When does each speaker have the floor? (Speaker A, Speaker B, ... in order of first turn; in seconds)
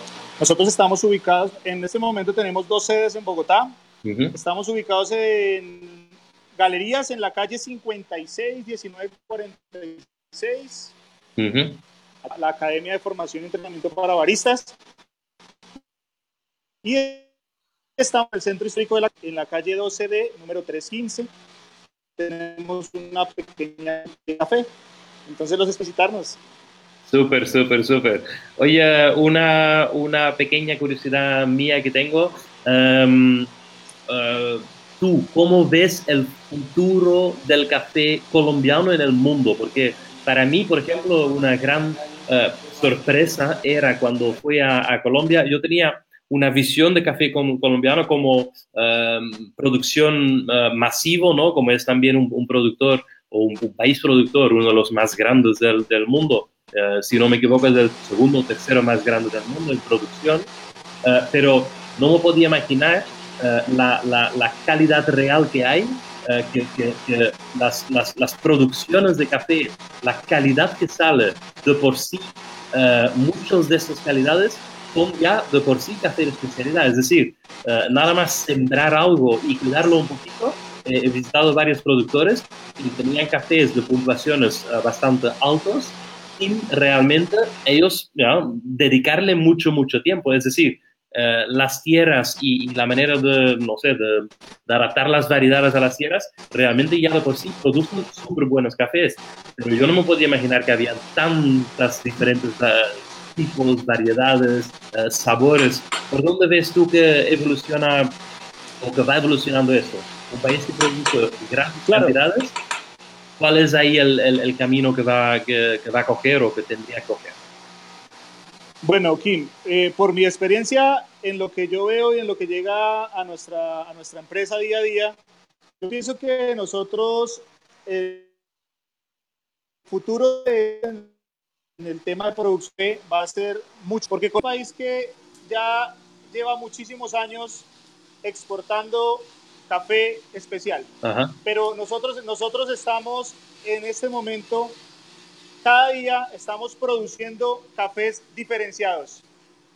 Speaker A: 0.4-3.7, 4.3-10.9, 12.2-14.8, 16.8-17.3, 18.0-21.3, 22.2-24.7, 25.2-26.4, 111.9-112.2, 118.8-125.2, 125.8-128.3, 129.9-131.1, 131.8-137.7, 138.2-140.9, 141.4-144.8, 145.6-149.2
Speaker B: 4.0-4.3, 11.4-11.8, 27.1-33.5, 34.1-60.5, 61.0-108.2, 108.8-112.6, 113.4-117.4, 141.0-141.3